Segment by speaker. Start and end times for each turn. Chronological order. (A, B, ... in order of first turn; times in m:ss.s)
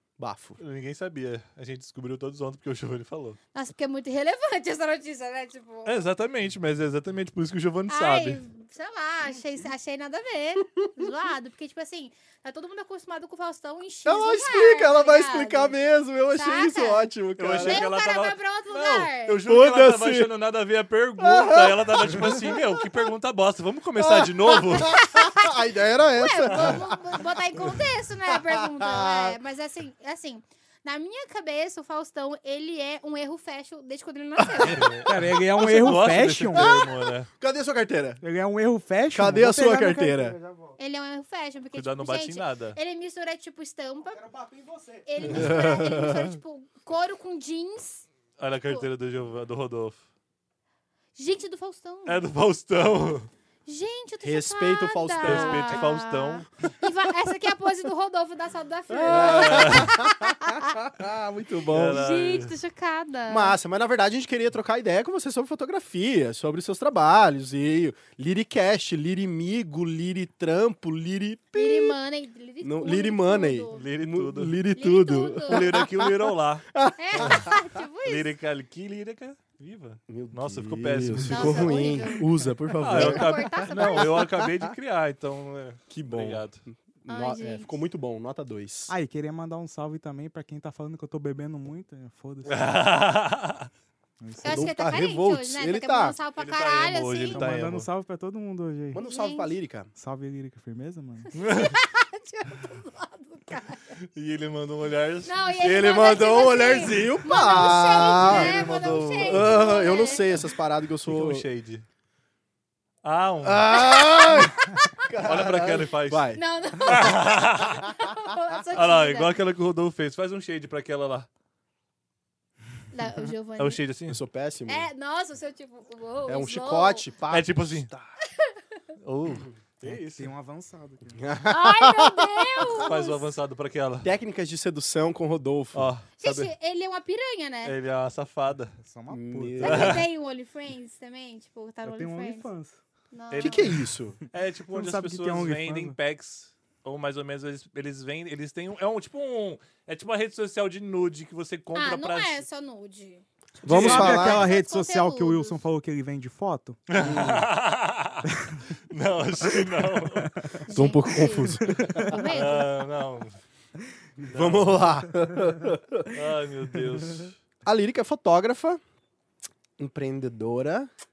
0:00.2-0:00.6 A
0:00.6-0:03.4 B
0:03.5-0:06.0 C
0:05.9-0:08.4 B
0:07.9-0:15.8 C
0:14.1-0:17.9 A
0:16.3-0:19.4 C
0:17.4-0:25.0 B
0:19.5-0:20.3 A
0:21.2-0:22.8 A
0:24.0-0:29.4 A
0:24.8-0:35.0 C
0:26.5-0:26.8 B
0:34.4-0:34.9 A
0:34.6-0:37.3 B
0:35.0-0:36.8 D
0:35.6-0:36.1 A
0:36.5-0:36.9 C
0:37.3-0:38.2 A
0:38.2-0:40.8 D
0:39.1-0:40.4 A
0:40.8-0:44.2 C
0:41.7-0:42.8 B
0:44.1-0:45.6 D
0:45.1-0:48.1 C
0:45.3-0:46.3 A
0:48.4-0:50.0 B
0:51.2-0:52.2 C
0:52.1-0:53.3 B
0:53.7-1:00.8 C
0:54.2-0:55.8 A
0:55.2-0:56.5 B
0:58.9-1:02.0 A
0:59.1-1:00.0 B
1:01.7-1:02.5 B
1:01.9-1:03.6 C
1:03.3-1:12.0 A
1:11.6-1:13.8 C
1:12.6-1:16.2 A
1:13.7-1:14.6 B
1:14.8-1:15.8 C
1:15.5-1:17.4 B
1:16.7-1:17.6 A
1:17.0-1:18.3 C
1:18.0-1:22.0 B
1:20.1-1:24.6 A
1:21.2-1:22.3 C
1:22.8-1:26.6 B
1:22.8-1:24.2 C
1:25.9-1:28.9 A
1:27.1-1:27.8 C
1:28.9-1:32.6 D
1:32.5-1:33.7 B
1:34.2-1:34.7 D
1:34.4-1:37.4 C
1:34.4-1:36.2 A
1:36.4-1:37.9 B
1:37.3-1:39.0 D
1:38.9-1:39.9 A
1:39.0-1:39.6 C
1:40.0-1:41.3 D
1:41.3-1:43.8 C
1:41.4-1:41.7 B
1:44.0-1:46.2 B
1:45.3-1:50.4 C
1:45.6-1:48.6 A
1:48.1-1:49.6 B
1:49.2-1:51.5 A
1:51.1-1:51.9 B
1:53.0-1:53.7 B
1:53.4-1:57.1 A
1:53.7-1:54.9 C
1:55.2-1:56.3 B
1:56.4-1:59.4 C
1:56.8-1:57.9 B
1:58.7-2:01.3 B
2:02.9-2:03.8 C
2:03.6-2:04.2 B
2:04.1-2:04.9 A
2:04.7-2:07.0 C
2:06.3-2:08.1 A
2:07.3-2:07.9 B
2:08.2-2:08.6 C
2:09.0-2:10.3 B
2:09.8-2:11.2 D
2:11.2-2:12.9 A
2:11.5-2:13.2 C
2:12.8-2:14.1 B
2:14.0-2:16.5 A
2:15.7-2:16.4 B
2:16.2-2:17.7 C
2:17.6-2:18.8 B
2:18.8-2:20.0 D
2:19.1-2:20.0 A
2:19.6-2:22.5 C
2:19.6-2:20.0 B
2:21.8-2:22.8 D
2:23.1-2:23.9 C
2:23.3-2:23.7 B
2:23.4-2:24.2 A
2:24.3-2:32.4 B
2:24.7-2:26.0 D
2:31.8-2:35.6 C
2:33.6-2:34.5 A
2:33.7-2:34.1 B
2:33.7-2:36.8 D
2:36.9-2:40.6 B
2:37.0-2:37.4 A
2:39.8-2:40.6 D
2:40.6-2:42.7 C
2:40.7-2:42.4 A
2:41.7-2:42.1 D
2:42.3-2:43.4 B
2:44.2-2:46.2 A
2:44.2-2:45.0 B
2:46.1-2:47.4 B
2:47.6-2:48.8 A
2:49.8-2:50.9 A